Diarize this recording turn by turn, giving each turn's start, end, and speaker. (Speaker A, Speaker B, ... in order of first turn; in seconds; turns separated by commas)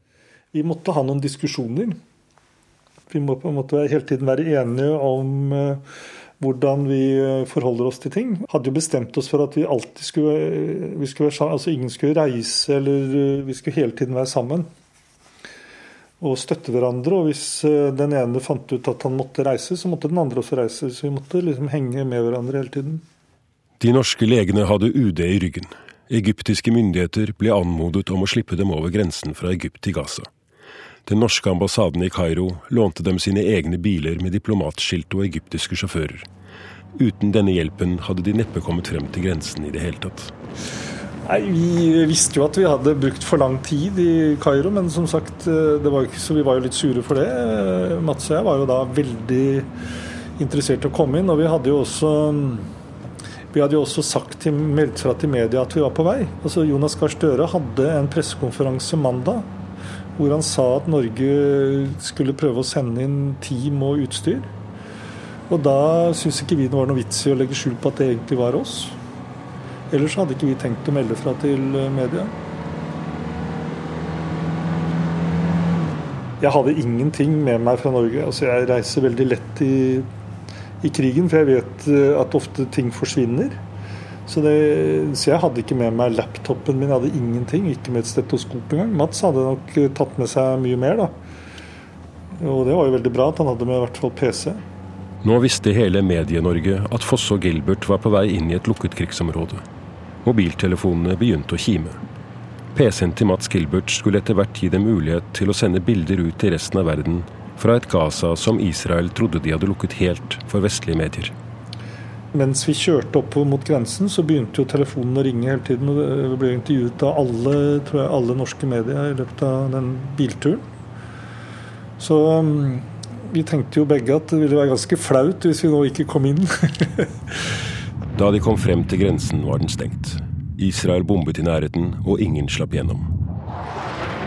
Speaker A: 0.5-2.0, Speaker A: 3.1-5.8, Speaker A: 6.4-14.7, Speaker A: 16.2-23.0, Speaker B: 23.8-30.3, Speaker B: 31.1-36.3, Speaker B: 37.0-40.3, Speaker A: 41.2-49.7, Speaker A: 50.4-52.7, Speaker A: 53.5-59.5, Speaker A: 60.2-64.5, Speaker A: 65.5-69.0, Speaker A: 69.9-72.3, Speaker A: 76.4-80.1, Speaker A: 80.8-83.6, Speaker A: 84.3-91.1, Speaker A: 92.4-94.6, Speaker B: 95.2-99.6, Speaker B: 100.2-102.0, Speaker B: 102.7-111.3, Speaker A: 112.3-120.6, Speaker A: 122.0-127.1, Speaker B: 128.2-133.1